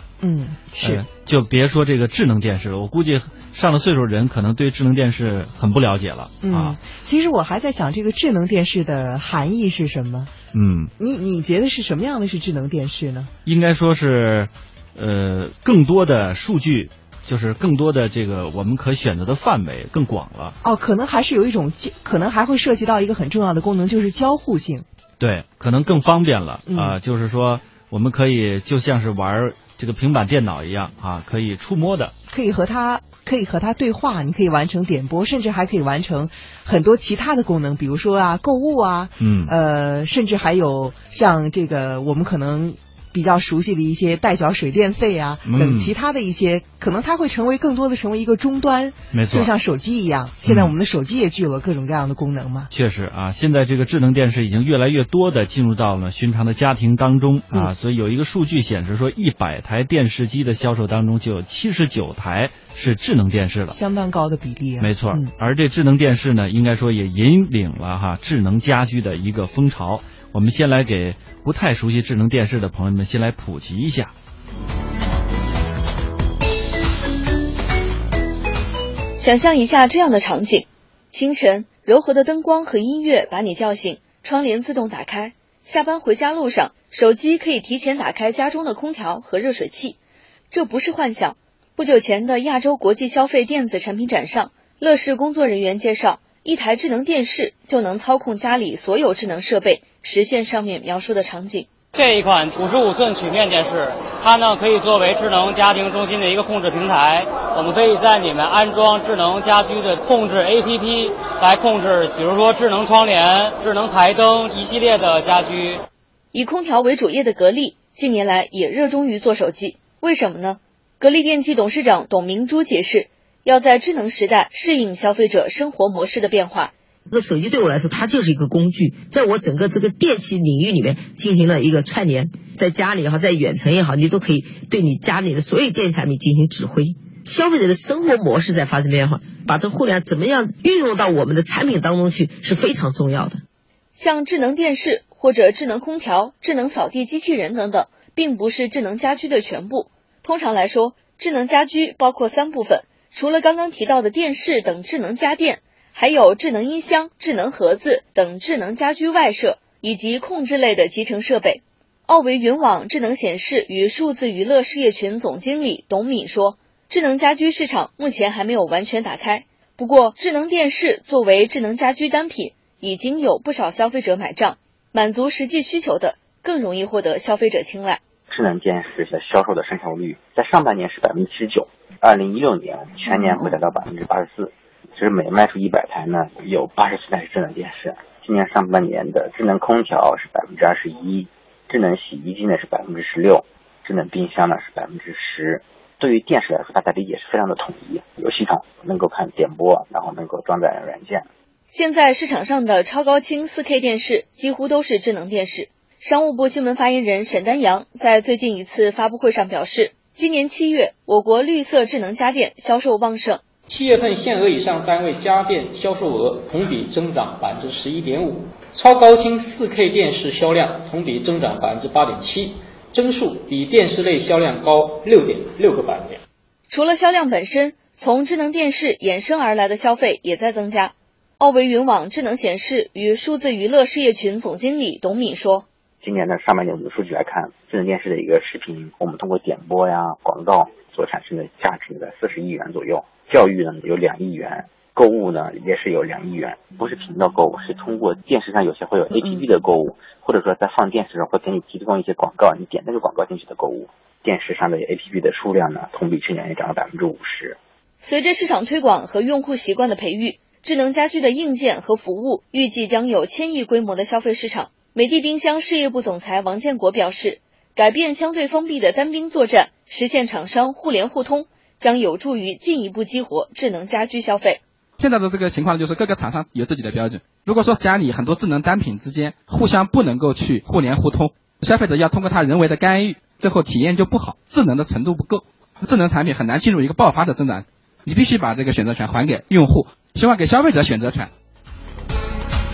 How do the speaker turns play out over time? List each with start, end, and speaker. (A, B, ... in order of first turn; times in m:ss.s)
0:00.2-0:01.0 A
0:00.8-0:06.8 B
0:06.4-0:10.3 A
0:10.5-0:10.9 B
0:11.0-0:13.3 A
0:13.4-0:20.6 B
0:20.6-0:24.9 A
0:25.2-0:32.1 B
0:26.7-0:27.0 A
0:32.3-0:52.7 A
0:39.2-0:39.5 B
0:45.4-0:45.9 B
0:49.1-0:49.5 B
0:50.5-0:50.8 B
0:52.7-1:03.8 B
1:03.7-1:05.3 A
1:04.8-1:14.1 B
1:19.2-1:30.0 C
1:30.5-1:41.7 C
1:41.9-1:55.8 D
1:56.3-2:06.7 C
2:07.1-2:23.4 E
2:24.0-2:58.0 C
2:58.3-3:21.2 F
3:03.1-3:03.5 E
3:21.7-3:33.4 C
3:33.7-3:46.2 G
3:46.7-3:55.6 C
3:56.0-4:17.6 F
4:18.0-4:34.6 C
4:35.0-4:51.3 H